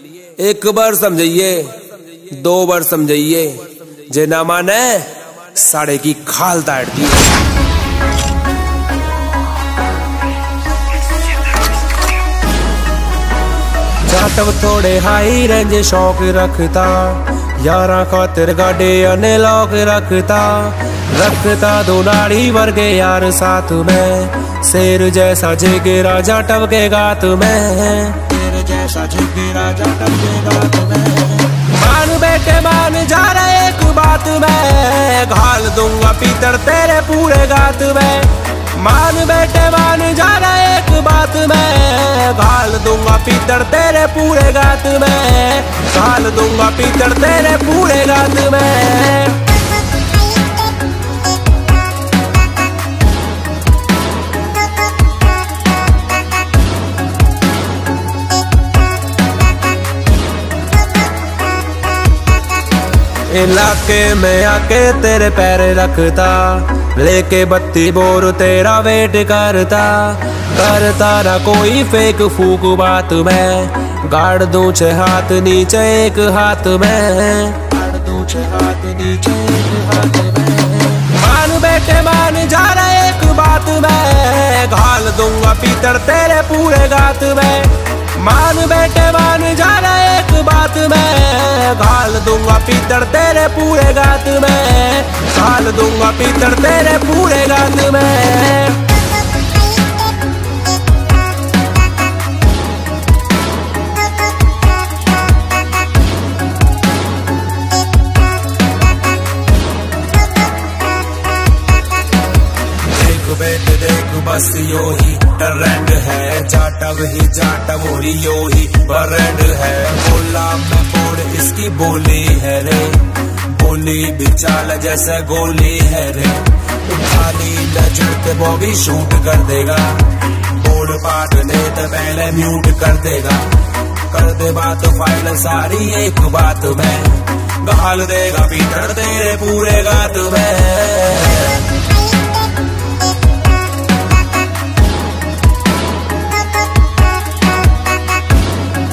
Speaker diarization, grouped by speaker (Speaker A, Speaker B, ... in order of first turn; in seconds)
Speaker A: 0.2-7.4, 14.0-49.5, 63.3-98.9, 112.9-141.7